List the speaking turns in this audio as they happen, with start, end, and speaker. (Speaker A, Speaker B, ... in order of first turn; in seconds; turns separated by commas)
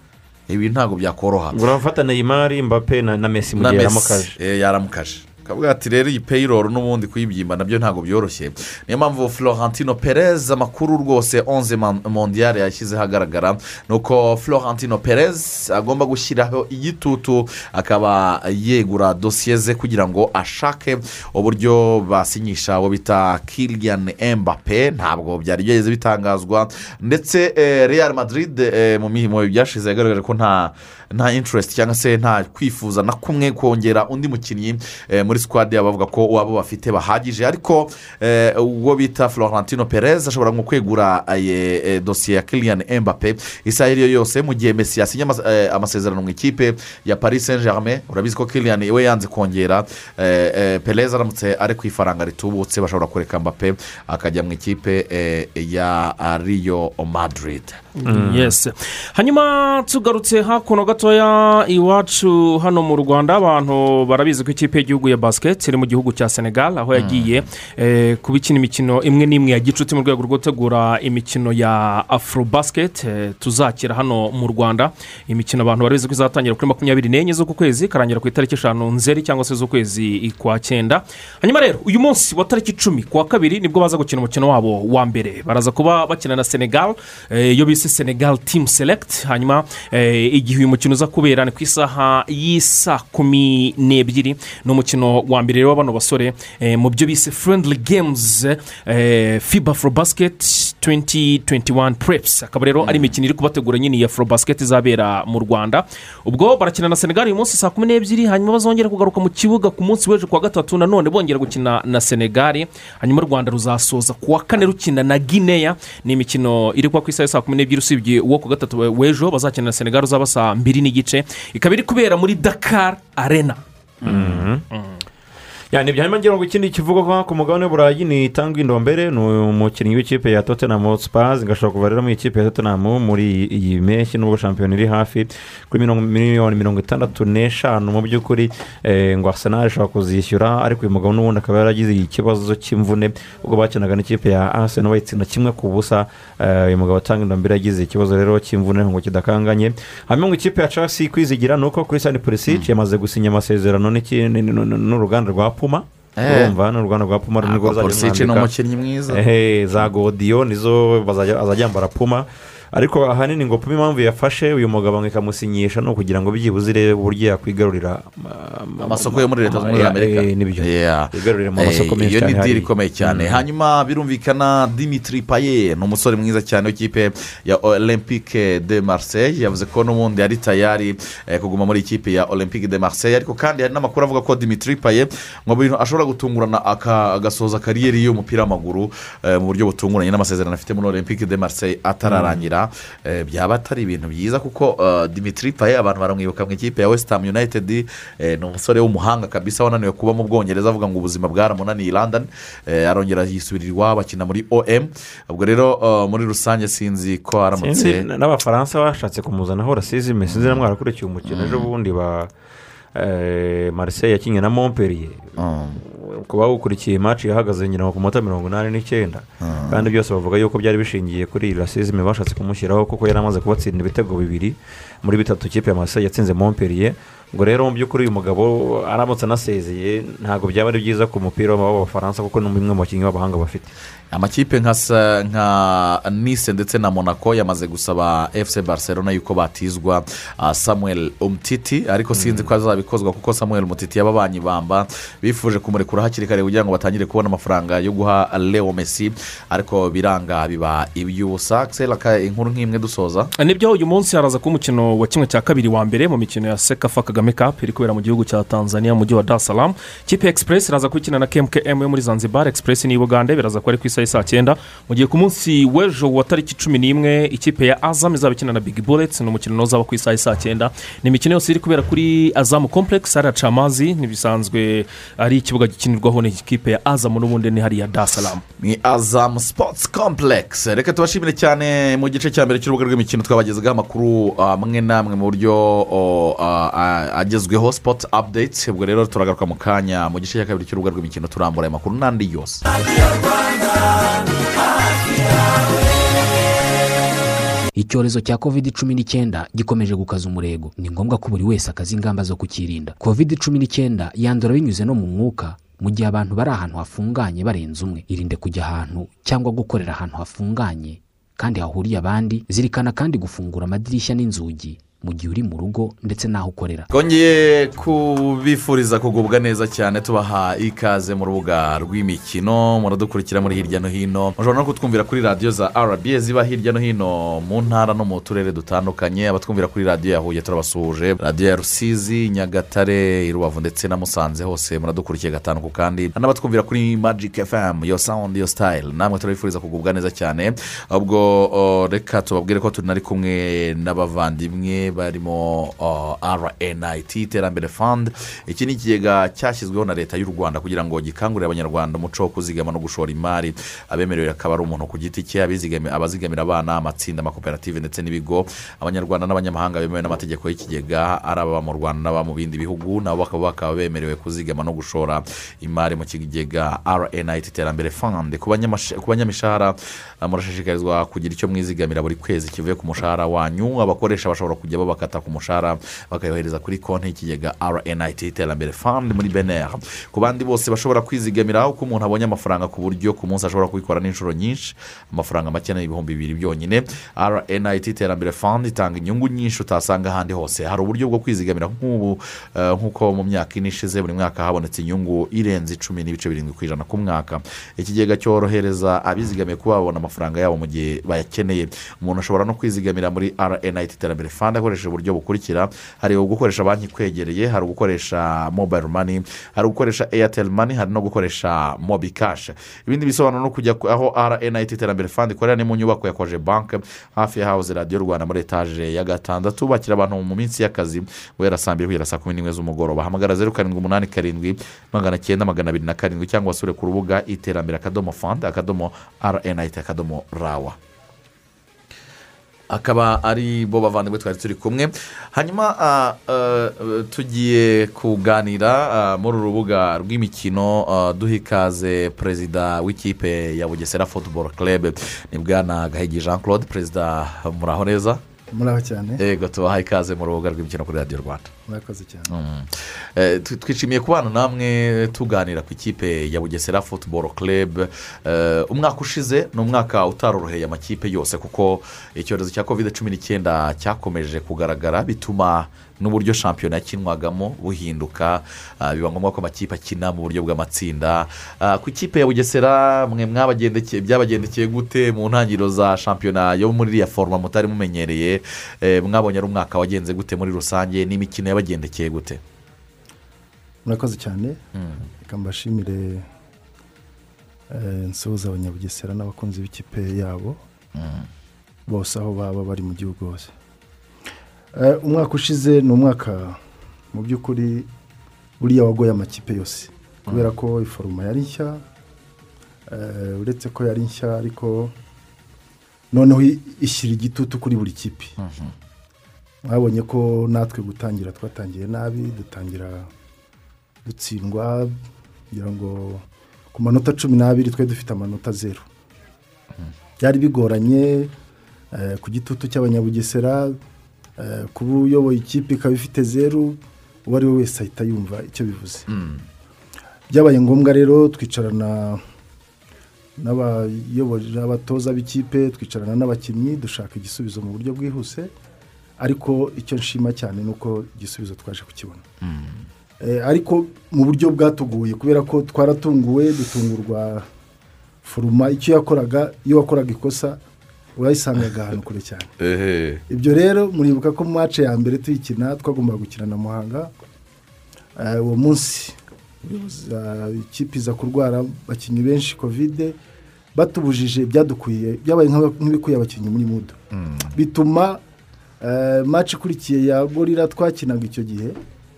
Speaker A: 0.5-1.6, Speaker B: 1.5-4.3, Speaker A: 3.5-57.8, Speaker C: 58.0-123.6, Speaker B: 58.0-58.5, Speaker A: 66.9-67.4, Speaker A: 102.8-103.0, Speaker A: 124.0-124.5, Speaker B: 124.0-124.6, Speaker C: 124.7-125.0, Speaker B: 125.7-158.5, Speaker A: 156.2-156.5, Speaker A: 157.4-159.2, Speaker B: 159.1-173.4, Speaker A: 168.8-208.0, Speaker B: 192.0-192.4, Speaker B: 207.6-212.3, Speaker A: 210.3-210.6, Speaker A: 211.2-211.7, Speaker B: 212.9-233.7, Speaker A: 215.4-215.8, Speaker A: 219.4-219.9, Speaker A: 234.1-253.3, Speaker B: 242.2-242.5, Speaker C: 253.4-278.4, Speaker A: 278.6-292.6, Speaker D: 297.7-316.9, Speaker A: 316.9-430.8, Speaker A: 432.7-448.2, Speaker E: 448.5-449.2, Speaker A: 449.2-451.5, Speaker E: 451.7-452.3, Speaker A: 452.3-482.4, Speaker E: 483.8-484.6, Speaker A: 484.8-485.0, Speaker E: 485.2-486.2, Speaker E: 487.7-490.6, Speaker A: 490.9-491.3, Speaker E: 491.9-493.5, Speaker E: 494.7-496.6, Speaker E: 497.1-497.9, Speaker E: 498.6-501.8, Speaker E: 502.9-504.9, Speaker E: 506.1-508.3, Speaker A: 508.4-508.7, Speaker E: 509.6-513.1, Speaker E: 514.0-514.9, Speaker E: 515.5-518.9, Speaker E: 520.2-521.3, Speaker E: 521.9-523.8, Speaker E: 524.4-529.0, Speaker A: 529.1-529.4, Speaker E: 530.3-532.2, Speaker E: 533.4-538.5, Speaker E: 539.2-542.2, Speaker A: 542.4-542.8, Speaker E: 543.2-547.5, Speaker E: 548.2-550.6, Speaker E: 551.1-552.5, Speaker A: 552.6-553.2, Speaker E: 553.3-557.1, Speaker E: 558.1-563.1, Speaker E: 563.7-567.0, Speaker A: 567.1-567.5, Speaker E: 567.5-568.2, Speaker E: 568.8-571.8